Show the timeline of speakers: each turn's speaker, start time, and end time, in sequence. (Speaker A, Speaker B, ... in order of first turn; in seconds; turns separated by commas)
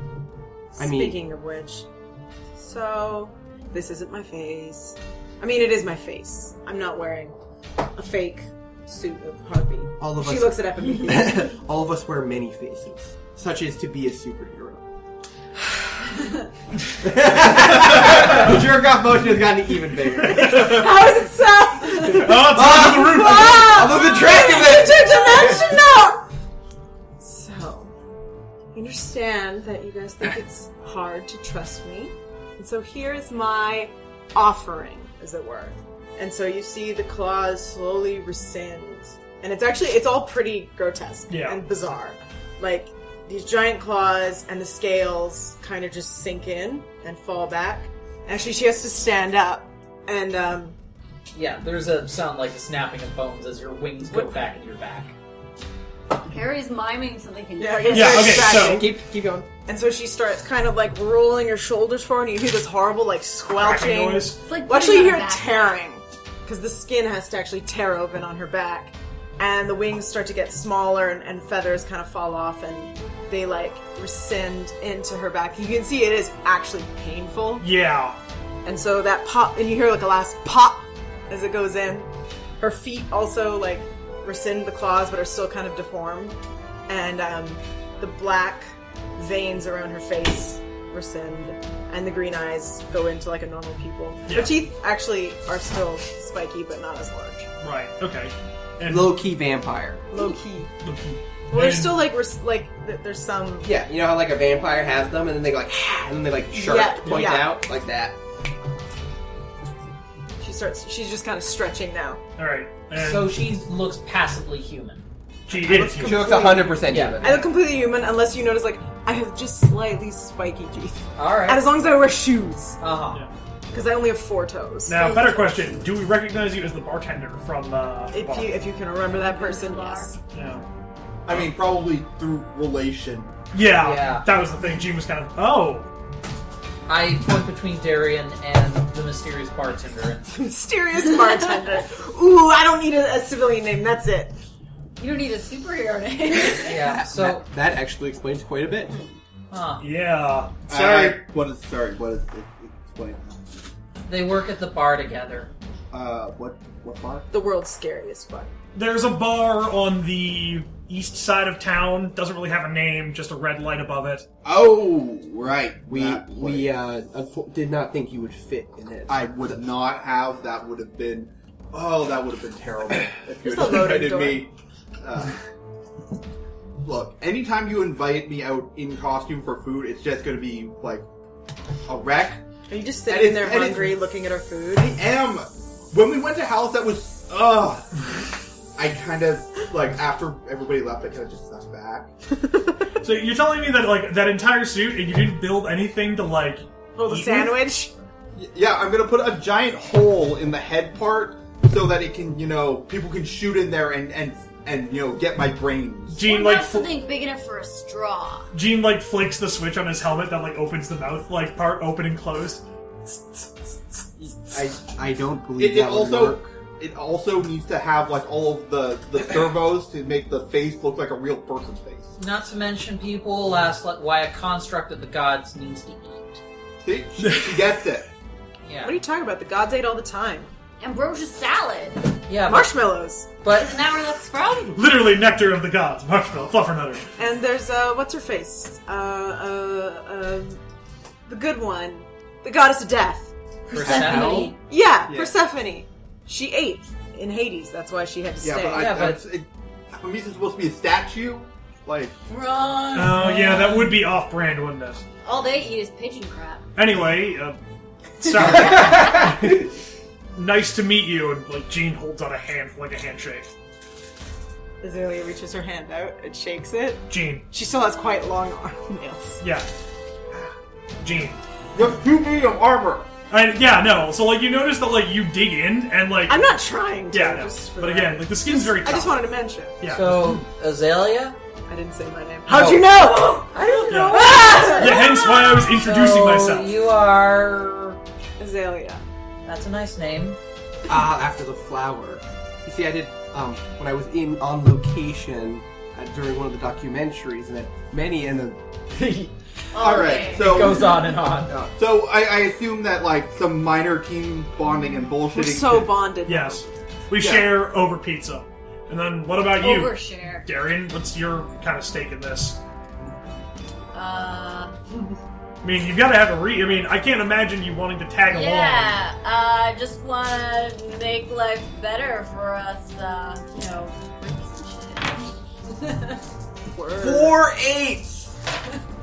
Speaker A: 0.8-1.9, Speaker B: 0.8-1.2, Speaker A: 2.5-7.3, Speaker A: 7.9-11.5, Speaker B: 10.0-14.8, Speaker B: 17.0-20.9, Speaker C: 20.2-20.9, Speaker A: 20.2-26.3, Speaker B: 21.9-25.8, Speaker C: 22.1-23.9, Speaker A: 27.2-27.9, Speaker A: 28.7-50.8, Speaker C: 41.3-41.6, Speaker D: 51.3-55.1, Speaker A: 54.1-54.5, Speaker E: 56.2-58.4, Speaker A: 57.6-59.0, Speaker C: 57.9-58.9, Speaker B: 58.3-59.5, Speaker A: 59.6-77.7, Speaker C: 63.6-64.4, Speaker E: 64.4-65.8, Speaker C: 77.6-78.2, Speaker A: 78.7-86.4, Speaker A: 86.9-97.5, Speaker C: 94.3-94.7, Speaker C: 97.6-99.2, Speaker B: 98.9-100.1, Speaker A: 100.1-100.7, Speaker C: 100.8-102.1, Speaker A: 101.5-103.7, Speaker B: 103.6-108.2, Speaker A: 106.5-107.6, Speaker A: 110.4-112.2, Speaker C: 112.4-113.3, Speaker D: 112.9-115.0, Speaker C: 115.5-116.7, Speaker B: 115.5-117.5, Speaker A: 116.1-122.8, Speaker D: 116.8-117.4, Speaker D: 121.2-121.7, Speaker D: 122.8-123.2, Speaker A: 123.7-125.0, Speaker C: 124.9-128.6, Speaker E: 125.0-125.5, Speaker A: 128.1-130.2, Speaker E: 129.1-130.1, Speaker C: 130.3-130.6, Speaker F: 131.3-133.3, Speaker C: 133.5-135.9, Speaker D: 133.7-134.3, Speaker D: 136.9-140.3, Speaker A: 140.3-144.4, Speaker E: 145.0-146.8, Speaker B: 146.4-149.0, Speaker D: 146.5-147.4, Speaker D: 149.5-149.8, Speaker C: 149.8-151.2, Speaker F: 150.7-153.5, Speaker D: 154.1-155.5, Speaker F: 155.9-157.3, Speaker A: 157.3-158.5, Speaker C: 158.8-164.3, Speaker F: 164.4-166.7, Speaker B: 165.9-169.4, Speaker F: 169.1-175.4, Speaker A: 173.4-174.5, Speaker F: 176.8-181.1, Speaker F: 181.9-182.4, Speaker A: 182.7-184.9, Speaker F: 183.1-184.0, Speaker F: 184.8-188.1, Speaker F: 188.8-192.1, Speaker C: 193.0-197.6, Speaker A: 197.0-197.9, Speaker F: 198.3-206.2, Speaker C: 206.1-206.9, Speaker E: 206.2-208.5, Speaker C: 208.5-214.1, Speaker B: 214.5-216.4, Speaker F: 215.6-222.2, Speaker D: 222.2-226.4, Speaker F: 226.8-228.1, Speaker D: 228.7-228.9, Speaker A: 228.8-230.5, Speaker E: 230.8-232.1, Speaker D: 232.3-232.8, Speaker A: 232.4-233.3, Speaker D: 233.4-233.7, Speaker E: 233.5-234.8, Speaker C: 234.7-237.1, Speaker A: 237.2-240.6, Speaker A: 241.3-243.3, Speaker D: 243.7-244.6, Speaker B: 243.8-244.5, Speaker A: 243.8-248.9, Speaker F: 245.1-245.3, Speaker F: 248.4-252.2, Speaker D: 248.7-249.2, Speaker E: 252.3-253.8, Speaker C: 252.9-255.0, Speaker E: 255.2-256.7, Speaker C: 256.8-257.6, Speaker C: 258.2-259.6, Speaker B: 258.6-259.5, Speaker C: 260.4-263.5, Speaker A: 264.8-269.4, Speaker C: 267.1-267.5, Speaker C: 269.4-269.7, Speaker C: 271.0-271.4, Speaker F: 271.7-273.1, Speaker C: 273.3-276.5, Speaker A: 276.3-279.8, Speaker C: 277.1-279.2, Speaker C: 279.8-280.4, Speaker D: 279.9-281.4, Speaker A: 281.7-285.0, Speaker D: 282.5-285.0, Speaker E: 283.8-285.5, Speaker C: 283.9-286.7, Speaker D: 285.7-288.0, Speaker A: 288.4-289.0, Speaker D: 289.4-290.4, Speaker B: 290.9-299.0, Speaker D: 299.0-301.5, Speaker E: 299.7-300.7, Speaker F: 299.7-301.0, Speaker B: 301.5-301.7, Speaker F: 301.8-305.9, Speaker A: 305.3-306.7, Speaker C: 306.3-312.6, Speaker F: 307.2-307.6, Speaker E: 309.6-310.5, Speaker E: 313.9-314.8, Speaker C: 315.6-319.0, Speaker E: 318.3-326.2, Speaker A: 326.7-327.4, Speaker F: 327.0-328.4